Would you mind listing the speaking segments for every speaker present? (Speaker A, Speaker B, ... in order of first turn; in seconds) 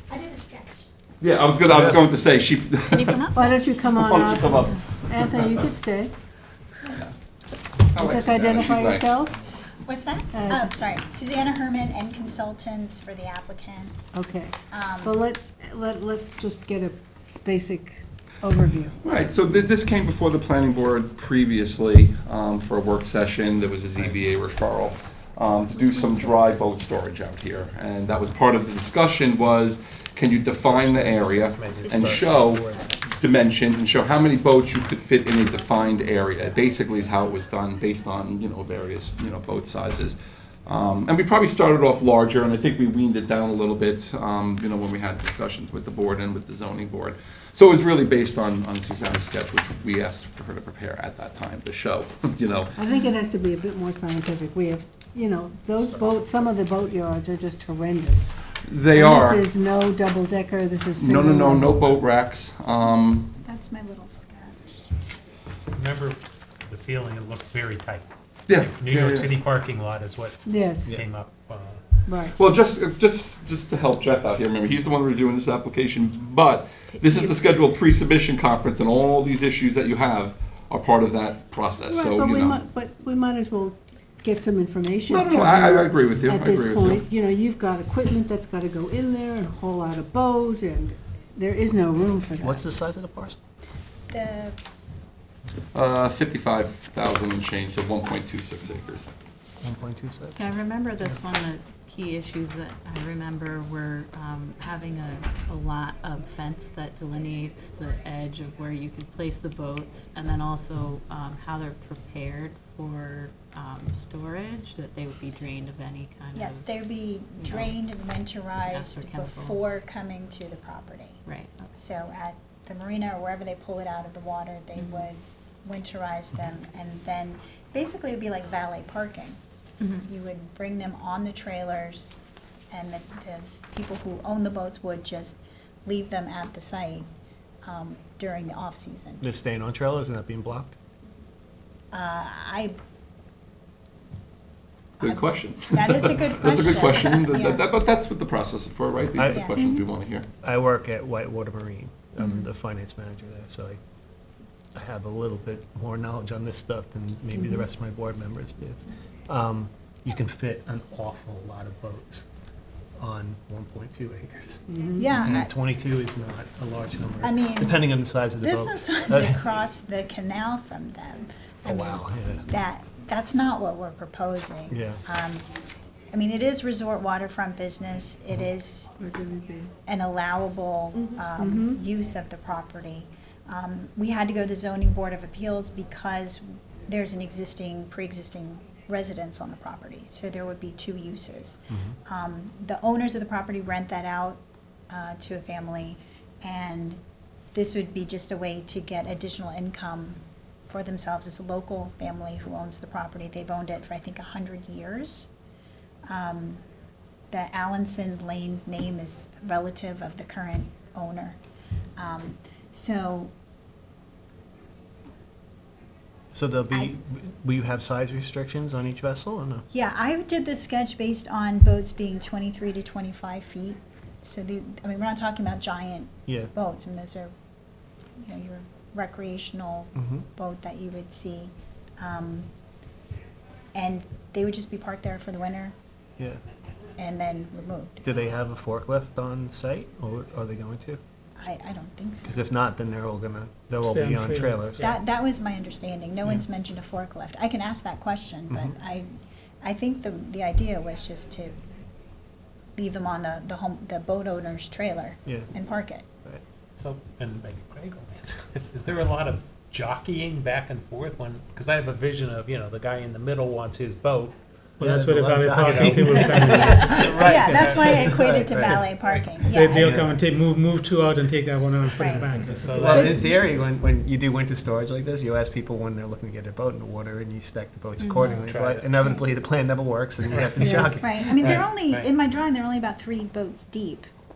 Speaker A: 0.1-0.9, 9.8-14.0, 14.7-15.2, 63.4-64.9, 94.1-94.6, 116.3-121.2, 121.7-129.4, 130.0-132.2, 132.7-137.1, 137.7-139.2, 141.9-142.8, 145.0-147.7, 149.3-149.6, 165.0-165.5, 167.2-167.8, 168.4-175.5, 176.1-178.9, 179.9-197.0, 197.5-205.3, 206.1-206.6, 207.3-211.4, 212.0-213.3, 219.7-227.3, 228.2-232.5, 233.8-235.8, 237.0-238.0, 241.4-242.4, 244.8-251.6, 252.8-256.1, 266.1-270.0, 272.0-272.4, 280.9-284.1
Speaker B: 1.2-5.7, 7.8-9.2, 19.0-52.7, 58.6-59.5, 61.0-63.4, 68.5-69.3, 72.2-82.6, 85.1-87.0, 95.7-99.1, 145.0-150.3
Speaker C: 1.7-2.0, 30.6-33.0, 55.8-56.5, 92.4-93.4, 99.6-100.4, 139.2-140.7, 149.2-149.5, 150.4-153.8, 154.8-162.3, 163.0-169.4, 171.7-172.5, 174.7-175.0, 191.7-192.0, 216.3-219.7, 226.3-226.5, 230.0-230.2, 238.0-241.0, 242.3-244.9, 248.5-248.8, 255.3-255.5, 264.8-268.9, 269.6-270.2, 272.8-281.6
Speaker D: 3.4-6.1, 8.0-9.3, 10.3-10.8, 14.1-19.0, 52.8-58.4, 58.9-61.8, 70.5-71.0, 72.1-72.4, 81.9-92.7, 157.4-157.6, 164.7-165.1, 179.0-179.7, 181.0-181.8, 280.6-280.9
Speaker E: 65.7-68.1, 68.6-71.8, 256.8-264.3, 265.7-266.1, 267.0-267.7, 272.1-273.6, 278.2-279.0, 280.3-282.1
Speaker F: 100.4-116.7, 117.4-117.7, 118.7-119.6, 121.3-121.7, 124.8-125.1, 129.8-130.1, 278.0-278.4
Speaker G: 243.8-245.0, 264.8-268.1, 269.4-273.2